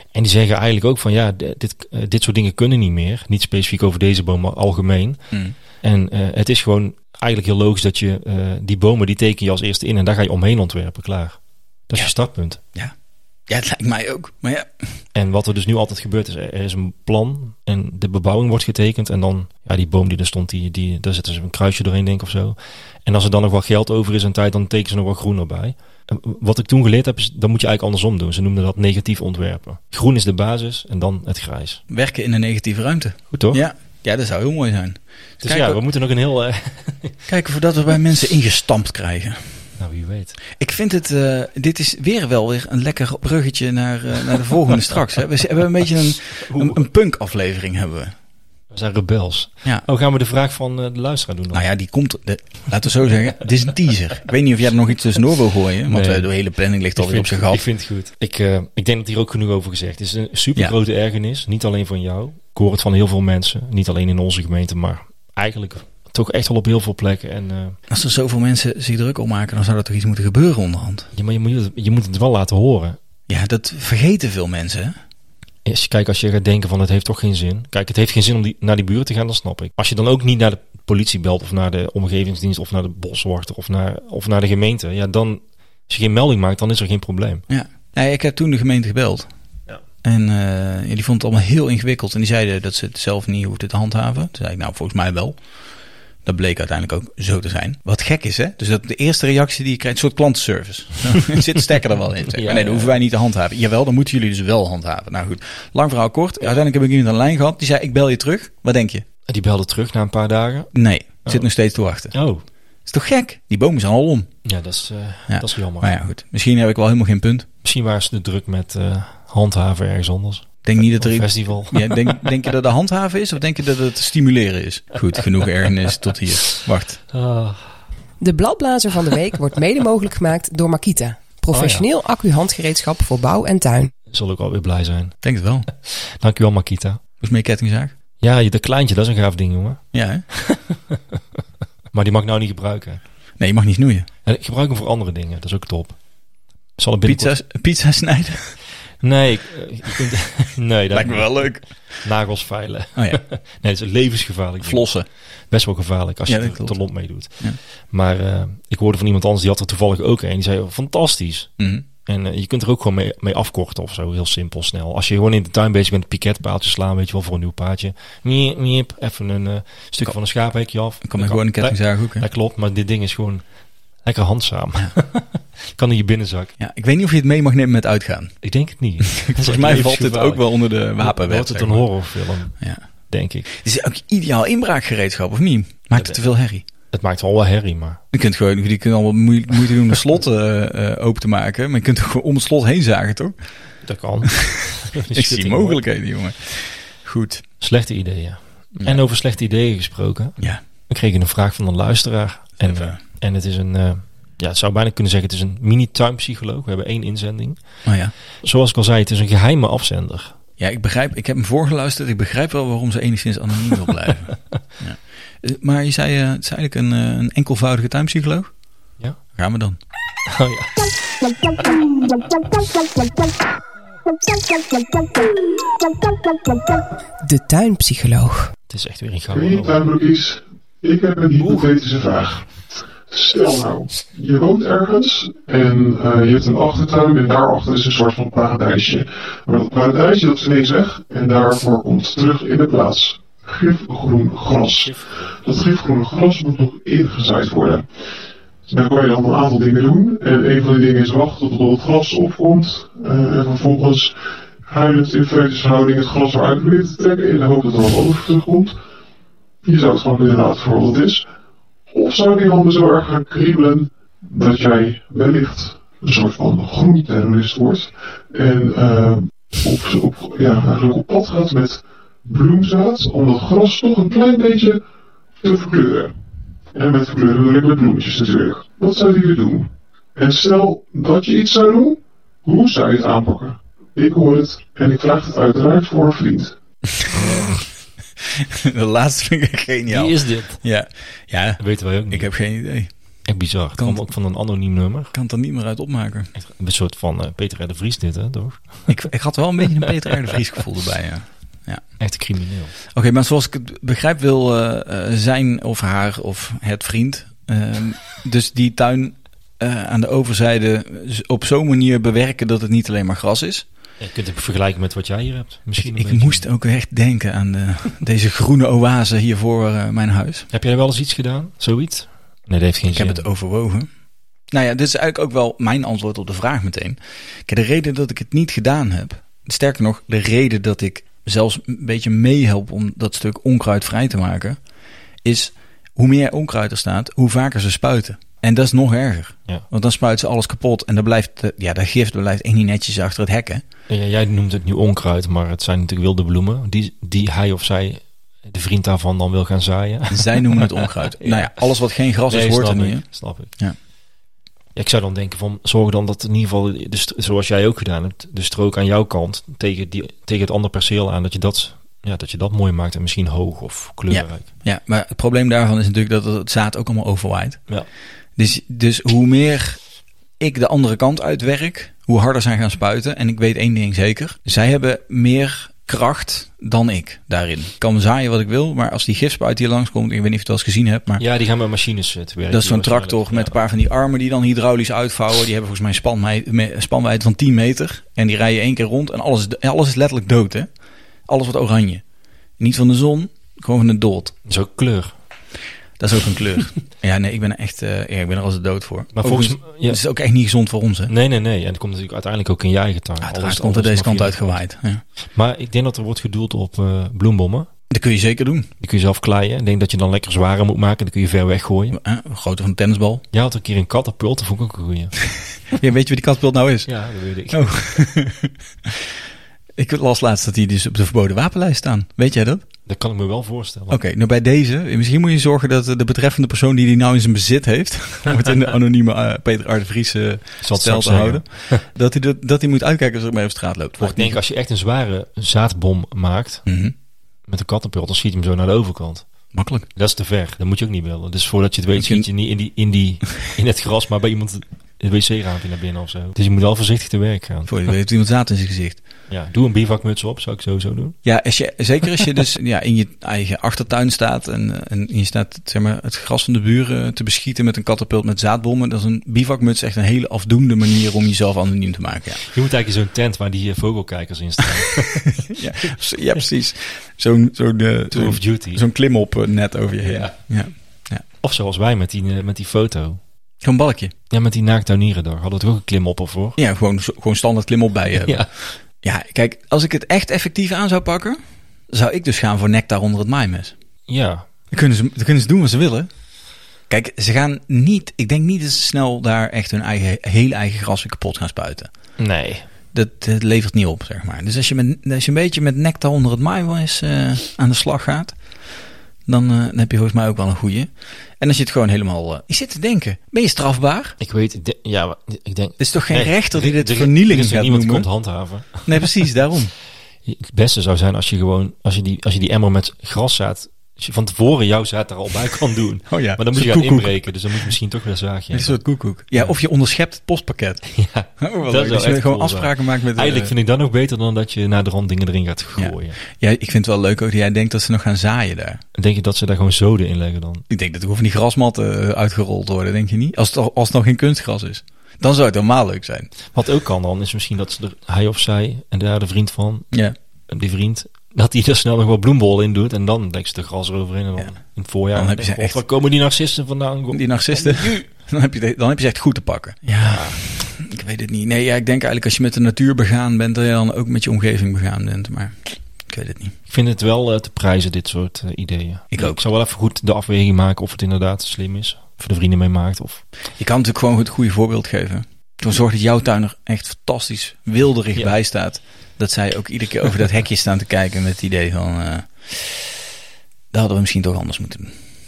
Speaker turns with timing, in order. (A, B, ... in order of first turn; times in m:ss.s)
0:00.1-0:12.6 A
0:05.3-0:05.6 B
0:13.5-0:14.9 B
0:15.1-0:31.8 A
0:31.9-0:35.8 B
0:33.3-0:33.6 A
0:35.4-0:37.2 A
0:37.3-0:39.7 B
0:39.8-0:40.4 A
0:40.6-0:48.1 B
0:46.4-0:46.8 A
0:48.7-0:51.6 A
0:51.5-0:57.6 B
0:55.9-0:56.3 A
0:57.0-1:07.8 A
1:07.9-1:11.1 B
1:11.2-1:13.0 A
1:13.3-1:15.0 B
1:15.6-1:27.4 A
1:27.5-1:29.3 B
1:30.0-1:35.5 B
1:36.2-1:49.0 B
1:42.3-1:43.0 A
1:49.3-1:50.7 A
1:50.7-1:52.1 B
1:52.1-1:52.4 A
1:52.9-1:54.3 B
1:54.4-1:55.9 A
1:55.3-1:57.5 B
1:57.6-2:02.4 A
2:00.6-2:07.0 B
2:07.1-2:07.8 A
2:08.2-2:13.9 C
2:11.5-2:11.9 A
2:14.1-2:15.2 A
2:15.2-2:15.7 B
2:15.7-2:17.0 A
2:17.2-2:17.9 B
2:18.2-2:21.2 A
2:19.9-2:20.2 B
2:21.9-2:23.0 A
2:23.4-2:24.1 B
2:24.2-2:26.0 A
2:26.8-2:27.3 A
2:27.0-2:28.6 B
2:29.0-2:53.4 A
2:30.9-2:32.0 B
2:33.0-2:33.2 B
2:34.6-2:35.1 B
2:36.3-2:37.6 B
2:41.6-2:41.8 B
2:51.0-2:52.2 B
2:54.0-2:56.5 A
2:56.6-2:58.4 B
2:58.4-3:03.5 A
2:59.0-3:02.0 B
3:02.6-3:02.8 B
3:03.5-3:06.6 B
3:06.9-3:08.0 A
3:08.1-3:13.3 B
3:13.8-3:15.8 A
3:14.4-3:17.4 B
3:17.6-3:27.9 A
3:22.6-3:23.0 B
3:27.8-3:28.1 B
3:28.4-3:30.4 A
3:30.6-3:38.5 B
3:39.3-3:39.8 B
3:40.3-3:41.2 A
3:47.2-3:48.5 C
3:48.7-3:49.8 A
3:49.3-4:08.1 D
4:04.6-4:05.4 A
4:08.7-4:18.8 D
4:19.6-4:21.3 D
4:21.9-4:34.8 D
4:35.4-4:36.1 D
4:36.7-4:46.6 D
4:46.9-4:47.6 B
4:47.1-4:47.5 A
4:48.3-4:52.9 B
4:49.9-4:50.7 A
4:51.6-4:52.3 A
4:53.3-4:55.1 A
4:53.8-4:54.1 B
4:55.1-4:56.3 B
4:56.4-4:59.0 A
4:58.9-5:01.8 B
5:02.0-5:02.7 A
5:02.9-5:13.7 B
5:14.0-5:16.4 A
5:15.8-5:20.5 B
5:20.5-5:23.2 A
5:22.9-5:23.9 B
5:24.5-5:34.6 B
5:35.2-5:43.6 B
5:43.9-5:51.6 A
5:50.1-5:53.8 B
5:52.3-5:53.5 A
5:54.8-6:04.5 A
6:04.1-6:07.7 B
6:08.4-6:09.8 B
6:10.4-6:21.2 B
6:21.2-6:23.6 A
6:22.5-6:30.7 B
6:31.3-6:32.0 B
6:32.6-6:34.3 B
6:34.4-6:35.2 A
6:36.0-6:41.1 B
6:39.1-6:40.0 A
6:41.1-6:44.6 A
6:43.2-6:45.0 B
6:45.3-6:47.7 A
6:47.9-6:48.7 B
6:48.8-6:52.0 A
6:51.9-6:53.2 B
6:53.3-6:55.1 A
6:55.7-6:56.9 B
6:56.9-6:57.9 A
6:57.5-6:58.5 B
6:59.8-7:02.6 B
7:02.9-7:04.0 A
7:03.9-7:14.4 B
7:10.6-7:11.8 A
7:14.0-7:16.6 A
7:16.7-7:16.9 B
7:17.5-7:19.3 A
7:19.5-7:19.9 B
7:19.9-7:27.8 A
7:22.0-7:22.3 B
7:27.7-7:29.0 B
7:29.3-7:31.2 A
7:31.2-7:42.4 B
7:42.4-7:45.4 A
7:45.3-7:51.2 B
7:48.1-7:48.8 A
7:50.0-7:50.4 A
7:51.4-7:53.2 A
7:53.6-7:54.1 B
7:54.3-7:56.6 A
7:56.6-8:01.4 B
7:58.2-7:58.6 A
8:01.9-8:03.8 B
8:04.1-8:04.5 A
8:04.7-8:06.1 B
8:06.9-8:11.9 B
8:12.2-8:12.6 A
8:12.9-8:18.4 B
8:19.3-8:24.2 B
8:24.2-8:29.1 A
8:25.8-8:28.1 B
8:28.8-8:29.7 B
8:30.2-8:38.8 A
8:36.1-8:37.7 B
8:38.5-8:40.9 B
8:40.9-8:46.2 A
8:41.4-8:43.5 B
8:45.8-8:48.8 B
8:49.0-8:50.6 A
8:50.7-8:56.3 B
8:56.5-8:59.9 A
9:00.5-9:08.0 A
9:05.1-9:05.8 B
9:07.1-9:16.6 B
9:10.0-9:10.4 A
9:16.7-9:23.2 A
9:19.1-9:19.4 B
9:23.6-9:32.9 B
9:33.7-9:34.9 B